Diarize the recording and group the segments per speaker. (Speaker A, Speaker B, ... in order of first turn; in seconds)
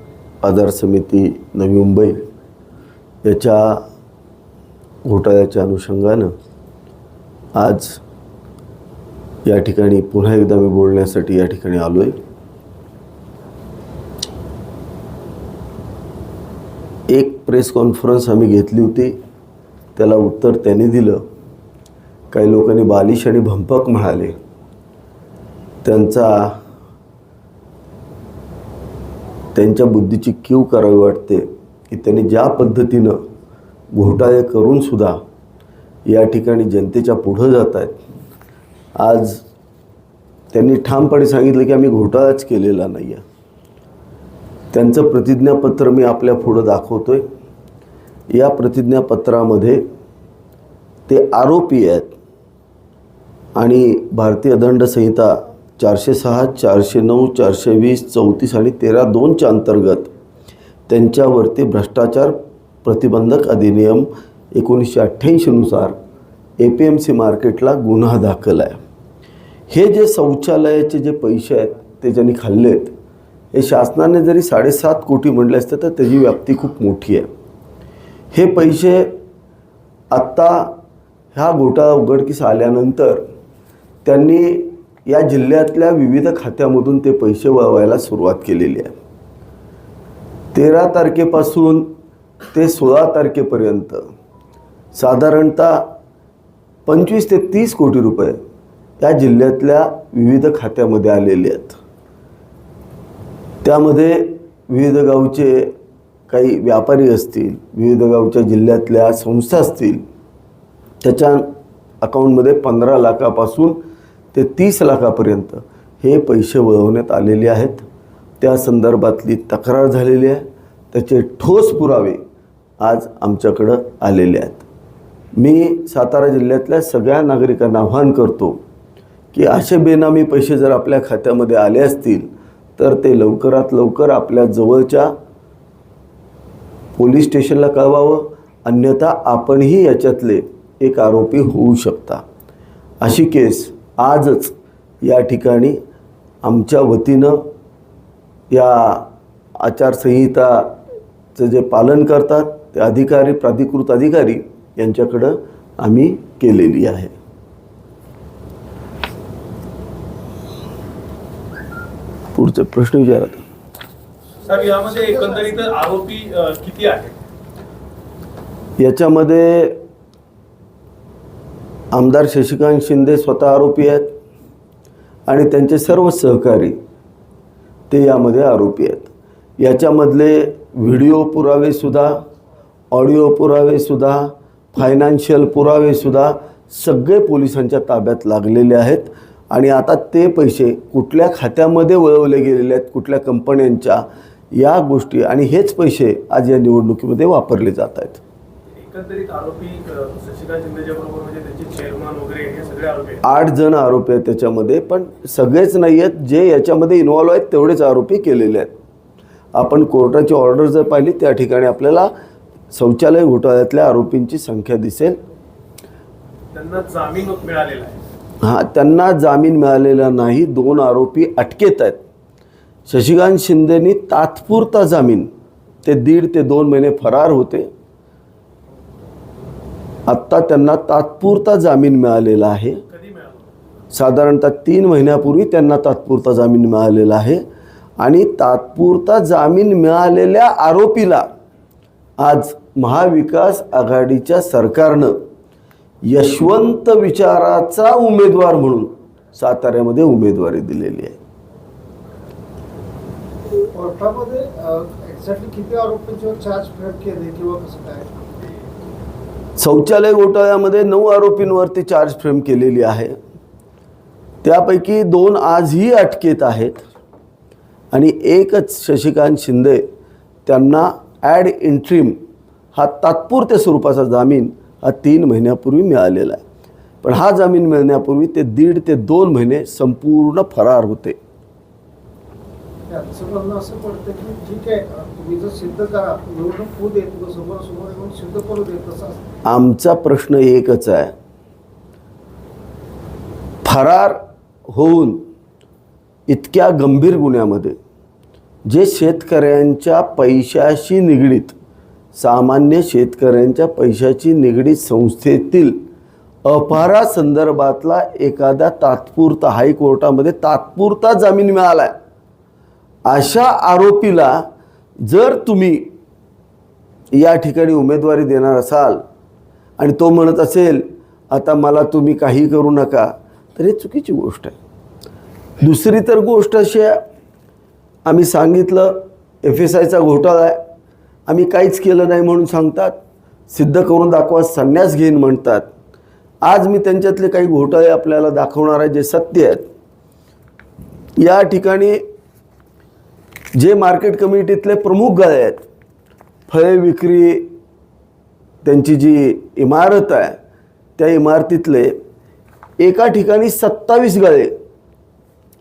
Speaker A: 0.4-2.3, 3.2-3.9, 5.0-6.3, 7.5-8.0, 9.4-12.2, 17.1-19.1, 20.0-21.3, 22.3-24.4, 25.8-26.6, 29.5-33.2, 33.9-35.2, 36.1-38.0, 39.0-39.4, 40.5-43.2, 44.7-47.3, 48.3-49.9, 51.1-52.1, 53.6-60.1, 60.9-65.9, 66.6-68.8, 69.7-72.9, 73.5-77.3, 78.3-79.2, 80.1-80.8, 81.3-83.2, 84.0-89.0, 90.5-91.9, 92.5-94.0, 95.0-95.9, 96.9-98.4, 99.0-101.8, 103.6-105.8, 106.3-110.0, 111.0-111.5, 112.0-113.8, 114.3-117.8, 118.4-122.2, 122.8-124.6, 125.4-128.6, 129.3-135.1, 137.0-142.2, 143.0-145.8, 146.4-147.5, 148.5-149.1, 149.6-150.8, 151.4-157.1, 162.3-163.4, 168.8-169.8, 171.9-174.2, 175.3-176.8, 177.9-182.2, 182.9-198.2, 203.2-208.7, 209.6-212.1, 212.7-215.2, 218.4-222.0, 222.9-225.3, 225.8-227.7, 230.1-232.8, 233.9-237.4, 238.0-241.3, 242.2-245.2, 246.1-251.2, 259.6-263.2, 264.4-266.8, 267.9-269.9, 270.5-272.2, 272.8-276.4, 277.0-281.2, 289.5-291.1, 293.6-295.3, 296.3-297.8, 298.7-301.6, 302.1-305.8, 306.5-311.9, 313.1-314.5, 315.0-315.9, 317.1-319.0, 319.8-324.6, 325.6-327.0, 328.1-330.6, 331.3-333.0, 333.5-335.7, 336.4-339.7, 341.2-342.0, 343.6-345.6, 346.5-347.5, 348.6-350.4, 351.0-351.9, 352.8-354.6
Speaker B: 164.4-167.2, 198.7-203.2, 216.5-218.0, 232.9-233.5
Speaker C: 164.5-165.4, 253.7-258.2, 282.9-289.2